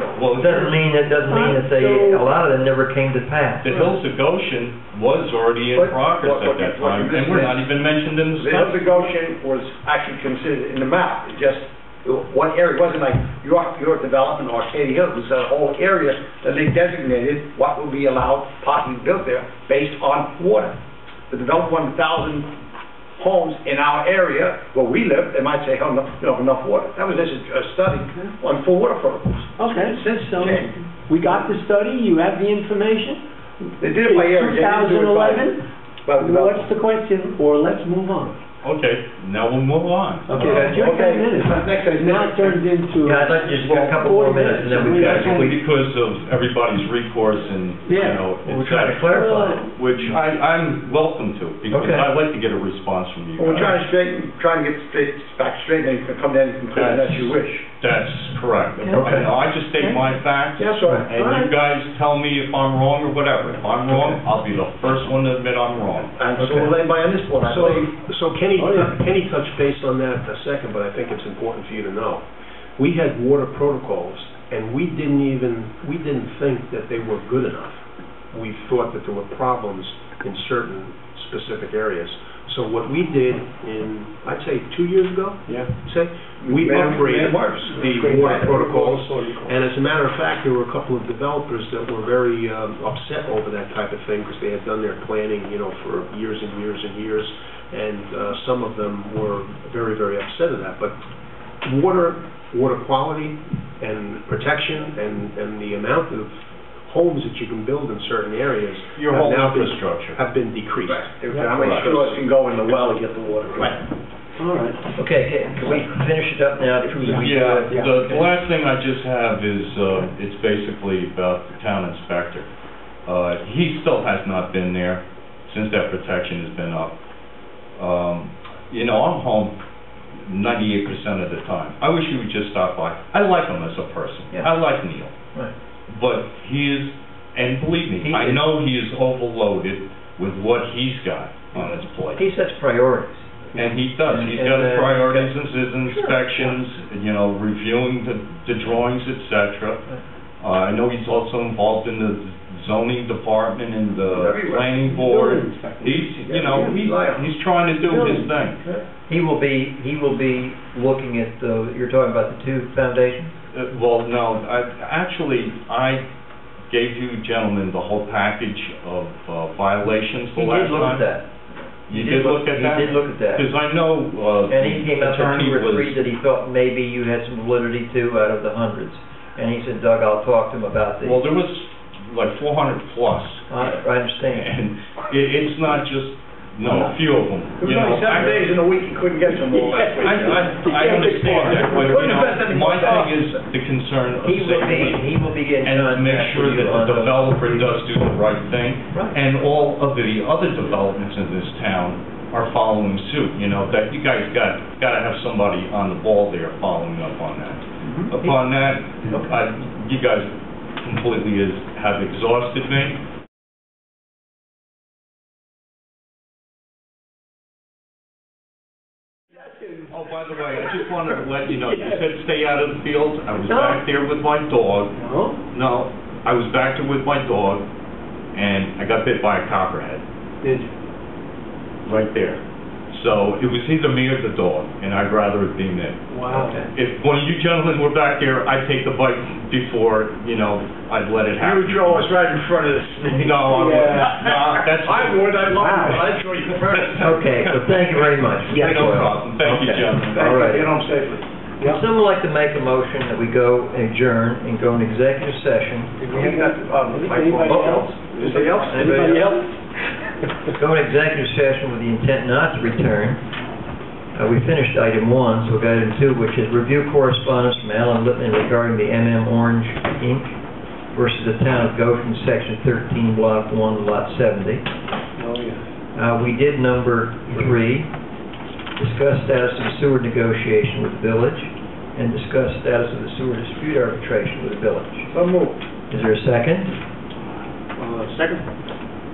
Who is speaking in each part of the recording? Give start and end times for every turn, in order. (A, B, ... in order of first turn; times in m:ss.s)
0:00.1-0:00.7 A
0:00.3-0:03.7 B
0:01.3-0:02.3 C
0:03.6-0:08.9 A
0:05.7-0:07.7 D
0:08.3-0:20.8 D
0:21.3-0:22.5 D
0:23.2-0:30.7 D
0:29.6-0:33.2 C
0:33.8-0:35.5 D
0:33.8-0:35.6 C
0:36.0-0:36.7 D
0:36.2-0:38.4 C
0:38.6-0:40.5 A
0:40.3-0:45.5 C
0:40.4-0:40.8 B
0:40.4-0:42.6 D
0:43.0-0:45.6 B
0:44.9-0:53.8 A
0:47.8-0:48.2 C
0:48.4-0:49.7 B
0:49.1-0:49.7 C
0:51.7-0:52.1 B
0:53.4-0:57.6 D
0:56.7-1:06.2 A
0:59.0-0:59.2 B
1:00.6-1:01.1 D
1:01.1-1:01.5 C
1:06.2-1:07.9 D
1:06.4-1:06.7 B
1:07.4-1:12.2 E
1:12.8-1:41.0 E
1:26.4-1:29.5 D
1:41.6-1:52.2 E
1:49.0-1:50.2 A
1:50.9-1:53.8 D
1:51.3-1:51.7 C
1:54.4-1:54.8 C
1:54.9-1:58.3 B
1:57.0-1:57.9 C
1:57.2-2:02.5 A
2:03.0-2:06.9 A
2:07.8-2:09.6 A
2:10.2-2:15.1 A
2:15.9-2:22.2 A
2:18.0-2:18.4 B
2:22.2-2:23.3 B
2:23.5-2:29.8 A
2:23.9-2:25.3 B
2:25.8-2:26.5 B
2:30.4-2:38.6 A
2:34.1-2:34.7 D
2:34.8-2:36.8 C
2:36.2-2:37.3 D
2:37.8-2:38.3 C
2:39.1-2:43.3 B
2:43.5-2:46.0 A
2:46.7-2:51.1 A
2:50.3-2:51.2 B
2:51.9-2:56.0 A
2:51.9-2:53.5 B
2:54.5-3:01.2 B
3:01.0-3:08.5 A
3:03.5-3:04.5 B
3:07.6-3:10.4 D
3:09.4-3:12.2 C
3:10.0-3:30.3 A
3:11.8-3:13.1 D
3:14.2-3:17.7 B
3:28.0-3:28.4 B
3:30.8-3:33.0 A
3:39.4-3:39.9 C
3:39.9-3:44.9 A
3:41.4-3:42.0 C
3:43.5-3:43.8 C
3:44.9-3:45.4 C
3:45.5-3:47.7 A
3:48.3-3:50.0 A
3:50.4-3:50.7 C
3:51.8-4:02.1 A
3:56.1-3:56.6 C
4:01.4-4:03.4 D
4:03.1-4:06.0 A
4:03.4-4:04.3 C
4:04.2-4:07.3 D
4:05.5-4:06.1 C
4:07.0-4:09.1 B
4:08.5-4:10.3 A
4:09.4-4:11.2 D
4:10.2-4:10.7 B
4:11.6-4:16.0 B
4:16.0-4:19.6 C
4:16.0-4:19.4 D
4:17.5-4:17.7 B
4:18.7-4:19.3 B
4:20.5-4:23.2 B
4:24.1-4:30.4 B
4:30.9-4:34.6 B
4:35.2-4:35.6 C
4:35.9-4:37.9 B
4:38.8-4:45.1 B
4:45.1-4:45.6 D
4:45.9-4:46.7 B
4:47.8-4:48.4 A